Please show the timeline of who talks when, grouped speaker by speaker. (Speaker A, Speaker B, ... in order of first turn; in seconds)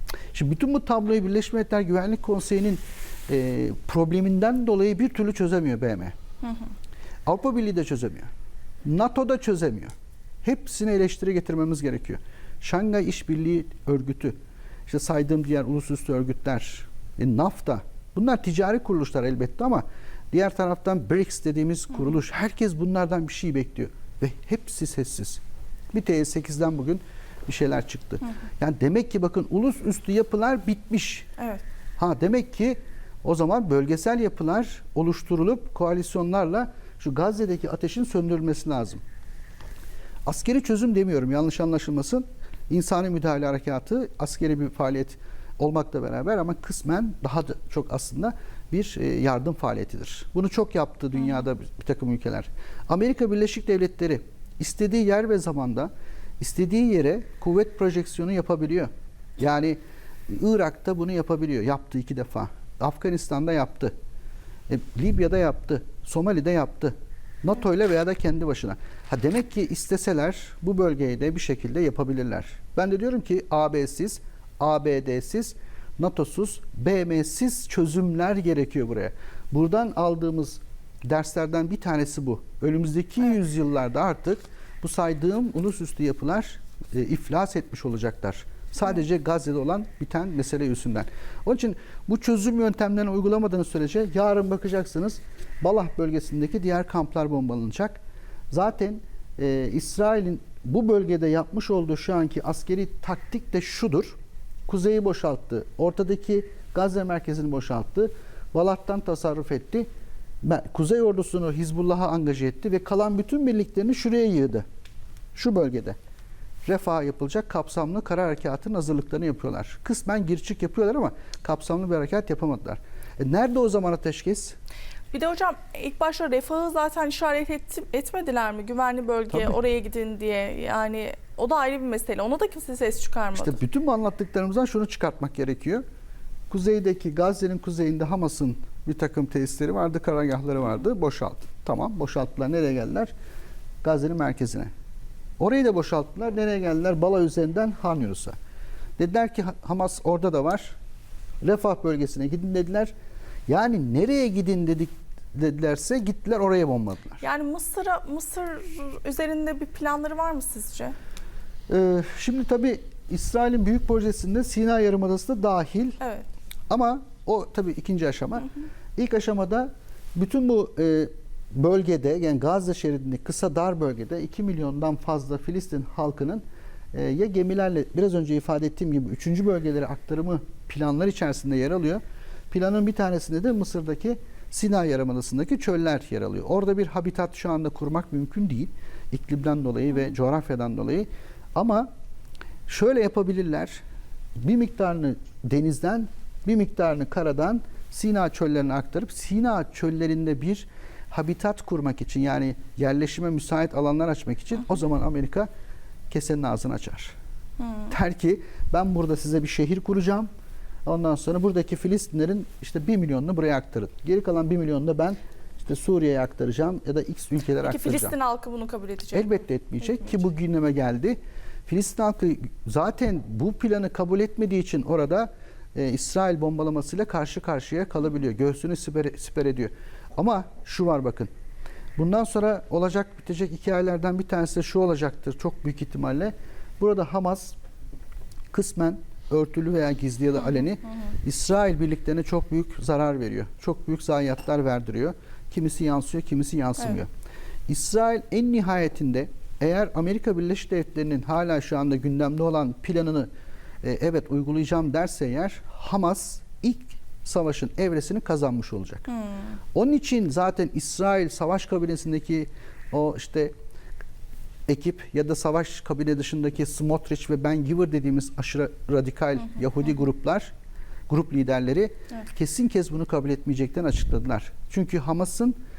Speaker A: 0.3-6.2, 7.2-8.3, 8.8-9.9, 10.4-14.3, 14.9-25.4, 25.9-31.3, 32.0-39.0, 40.2-63.9, 64.7-98.0, 98.5-109.9, 110.4-114.6, 115.3-116.0, 116.7-124.6, 129.3-129.6, 133.3-135.8, 136.5-143.1, 143.8-144.7, 145.4-148.3, 149.0-150.8, 151.4-152.9, 153.5-157.2, 161.7-166.0, 166.7-191.9, 192.7-193.8, 194.4-205.5, 206.1-207.1, 207.9-210.3, 210.8-218.1, 219.1-231.3, 232.0-237.6, 238.5-247.1, 247.7-253.3, 253.8-259.1, 259.7-263.5, 264.7-270.5, 271.1-275.5
Speaker B: 125.1-133.6, 157.2-160.9, 166.0-166.2, 207.6-207.9, 217.6-220.1, 259.1-259.5